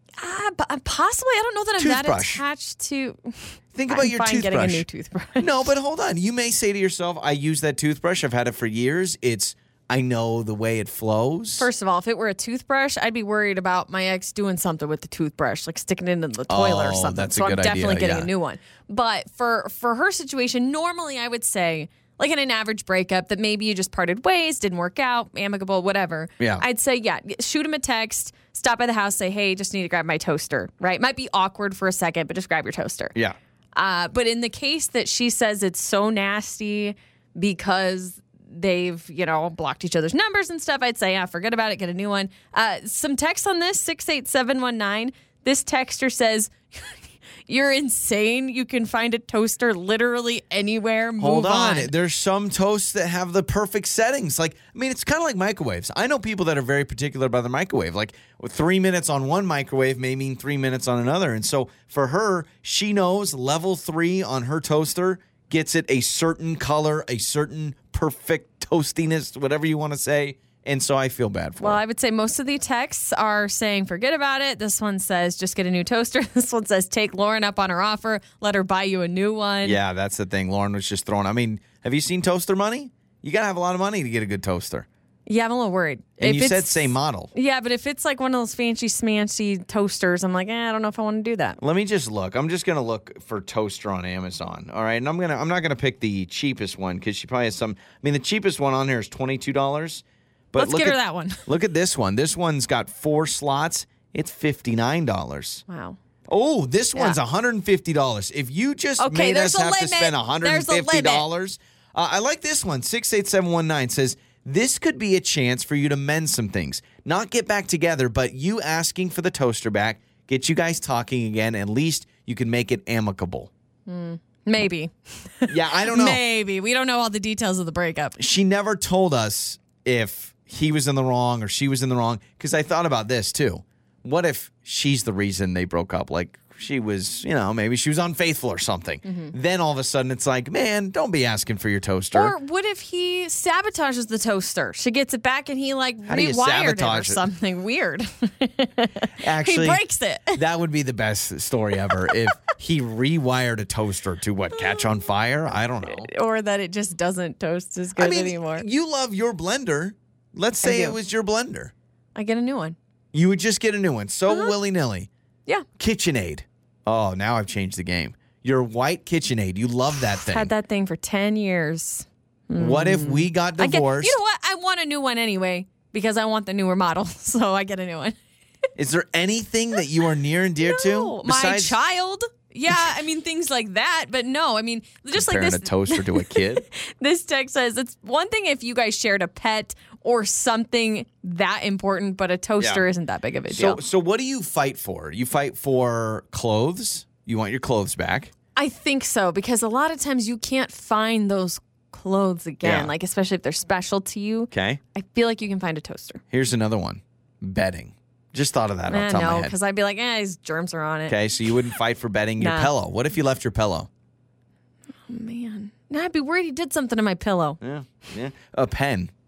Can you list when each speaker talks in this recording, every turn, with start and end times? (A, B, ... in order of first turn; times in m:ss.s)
0:00.2-0:05.7 A
0:01.8-0:02.4 B
0:03.7-0:04.8 B
0:05.4-0:11.7 B
0:11.6-0:33.2 A
0:16.5-0:18.3 B
0:26.4-0:26.6 B
0:33.8-0:51.9 A
0:51.2-1:11.8 B
1:11.6-1:19.8 A
1:19.6-1:24.9 B
1:25.3-1:31.6 A
1:26.2-1:27.3 B
1:31.6-1:45.6 B
1:40.6-1:41.5 A
1:45.7-1:46.0 A
1:46.3-2:03.5 B
1:49.0-1:51.3 A
2:03.9-2:08.2 A
2:05.5-2:06.2 B
2:08.2-2:22.4 B
2:19.1-2:19.3 A
2:22.1-2:30.4 A
2:26.1-2:27.2 B
2:29.2-2:36.1 B
2:34.6-2:34.8 A
2:35.8-2:38.7 A
2:38.0-2:41.7 B
2:40.6-2:41.0 A
2:42.2-2:42.8 A
2:43.1-2:45.1 B
2:44.3-2:44.6 A
2:45.8-2:50.5 B
2:50.0-2:58.2 A
2:52.6-2:54.2 B
2:58.8-3:01.8 B
3:00.6-3:13.8 A
3:05.1-3:06.6 B
3:12.6-3:12.8 B
3:13.5-3:18.3 B
3:18.6-3:26.2 A
3:22.6-3:22.9 B
3:24.5-3:24.8 B
3:26.3-3:29.6 B
3:28.9-3:31.2 A
3:31.1-3:33.9 B
3:32.4-3:32.7 A
3:35.1-3:37.6 A
3:37.6-3:39.1 B